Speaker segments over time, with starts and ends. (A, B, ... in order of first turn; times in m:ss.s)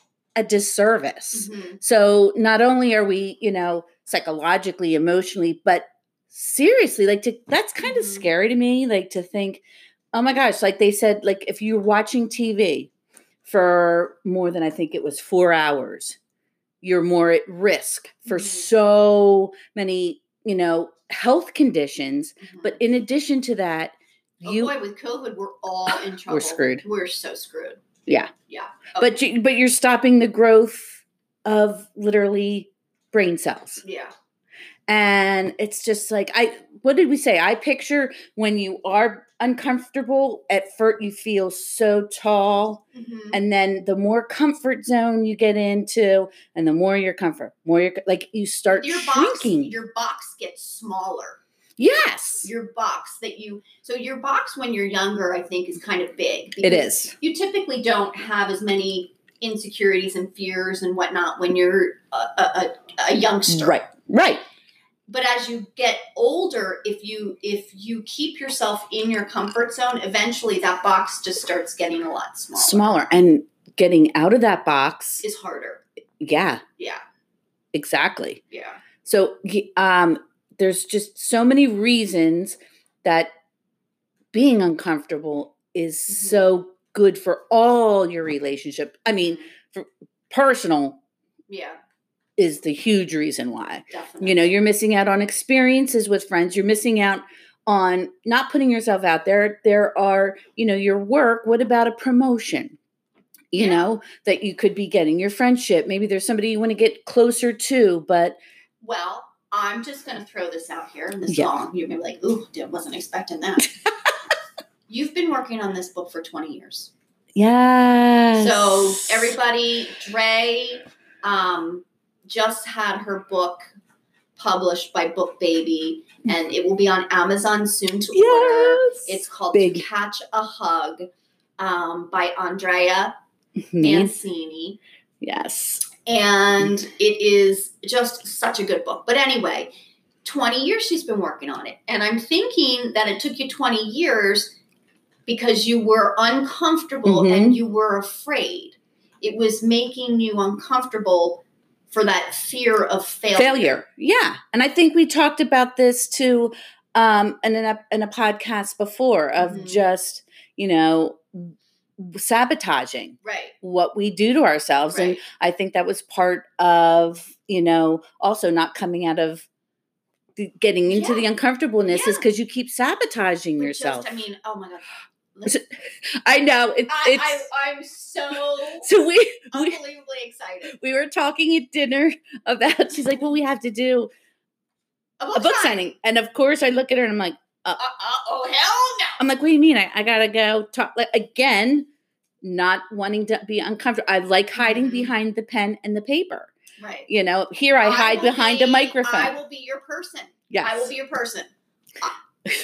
0:00.4-0:12.9 A
0:01.4-0:01.8 B
0:07.8-0:08.3 B
0:13.4-0:16.2 A
0:16.8-0:23.9 A
0:18.3-0:18.7 B
0:22.4-0:22.8 B
0:24.4-0:27.8 B
0:24.4-0:24.7 A
0:26.3-0:26.8 A
0:28.5-0:29.2 B
0:29.0-0:33.8 A
0:33.8-0:34.1 B
0:34.9-0:42.8 A
0:42.9-0:43.4 B
0:43.3-0:49.8 A
0:48.7-0:51.4 B
0:51.8-0:52.5 A
0:52.4-1:03.8 B
0:56.6-0:57.1 A
1:03.5-1:04.4 A
1:05.1-1:13.0 B
1:12.6-1:15.2 A
1:15.2-1:15.8 B
1:16.2-1:16.6 A
1:17.7-1:18.4 A
1:18.5-1:18.8 B
1:19.0-1:23.3 A
1:24.3-1:31.0 A
1:26.1-1:26.5 B
1:31.5-1:31.8 B
1:32.4-1:42.8 A
1:33.9-1:34.5 B
1:43.5-1:48.4 A
1:43.6-1:43.9 B
1:48.8-1:53.7 B
1:54.9-1:56.9 B
1:57.4-1:59.3 A
1:58.4-2:03.6 B
2:04.4-2:11.1 B
2:08.1-2:09.8 A
2:11.6-2:13.2 B
2:13.6-2:14.1 A
2:13.8-2:14.8 B
2:15.2-2:15.9 A
2:16.0-2:19.7 B
2:20.2-2:24.6 B
2:25.3-2:33.8 B
2:27.1-2:27.6 A
2:33.4-2:49.5 A
2:39.4-2:39.8 B
2:43.2-2:43.5 B
2:44.9-2:45.2 B
2:50.4-2:54.1 A
2:50.9-2:51.2 B
2:51.9-2:52.3 B
2:53.6-2:55.6 B
2:56.2-2:57.4 A
2:56.9-2:58.9 B
2:58.8-2:59.8 A
2:59.5-3:00.7 B
3:00.7-3:04.1 A
3:05.2-3:05.9 B
3:05.3-3:07.8 A
3:07.8-3:09.2 B
3:09.2-3:11.9 A
3:12.4-3:16.5 A
3:14.6-3:15.1 B
3:16.8-3:17.1 B
3:17.1-3:19.4 A
3:17.8-3:21.5 B
3:20.5-3:20.9 A